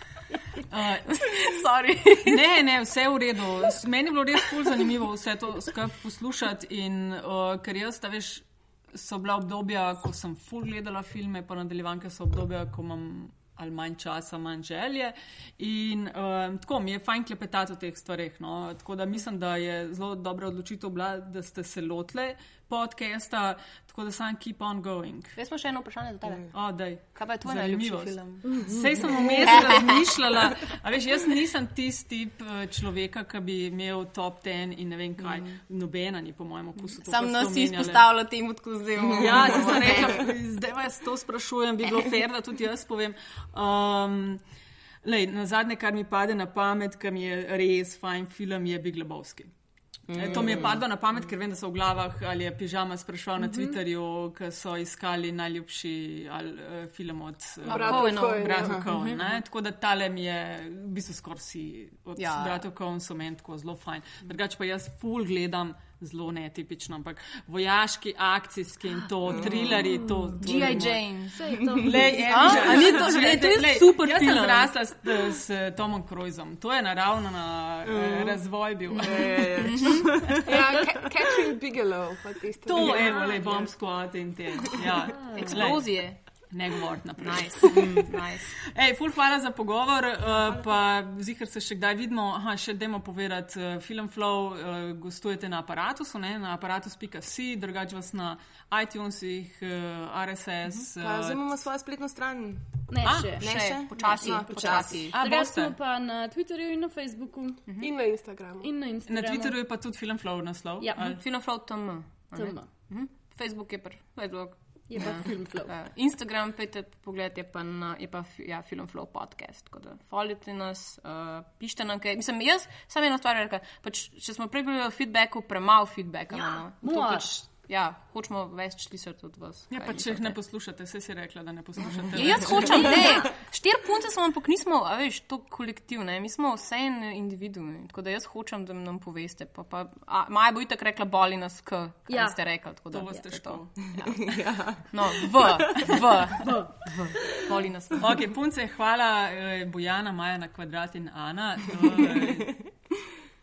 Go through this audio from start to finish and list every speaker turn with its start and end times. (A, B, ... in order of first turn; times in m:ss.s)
0:00.7-0:01.3 A
0:01.1-0:02.4 B
0:02.2-0:25.4 A
0:25.4-0:28.5 B
0:26.5-0:38.0 A
0:28.4-0:29.6 C
0:29.1-0:30.2 B
0:37.0-0:40.2 B
0:39.0-0:40.3 D
0:39.1-0:44.4 A
0:45.0-0:49.5 A
0:50.1-0:50.8 D
0:50.1-1:11.0 A
0:53.4-0:53.8 C
0:57.6-0:58.8 E
0:57.7-0:59.2 B
0:58.6-0:58.9 D
1:02.2-1:02.6 B
1:09.2-1:09.6 D
1:09.9-1:10.8 C
1:10.3-1:14.4 B
1:11.3-1:14.7 C
1:11.8-1:20.4 A
1:17.8-1:18.4 D
1:19.0-1:20.9 D
1:19.6-1:20.1 B
1:20.4-1:23.7 E
1:22.6-1:26.0 A
1:25.0-1:25.7 C
1:25.3-1:26.2 B
1:26.5-1:28.0 A
1:27.2-1:28.6 B
1:27.7-1:28.1 D
1:28.7-1:41.4 A
1:41.0-1:45.1 D
1:42.9-1:47.6 C
1:43.0-1:43.3 A
1:43.4-1:45.2 B
1:45.1-1:45.8 A
1:47.8-1:48.7 E
1:48.6-1:49.6 C
1:49.1-1:51.2 A
1:51.0-2:10.3 B
1:52.3-1:52.7 C
1:54.9-1:55.7 C
2:06.3-2:07.3 C
2:09.7-2:13.1 A
2:12.1-2:28.2 B
2:12.6-2:13.3 C
2:22.1-2:22.4 C
2:22.9-2:23.8 A
2:23.9-2:26.0 D
2:26.4-2:27.4 C
2:28.0-2:32.5 A
2:32.1-2:32.9 D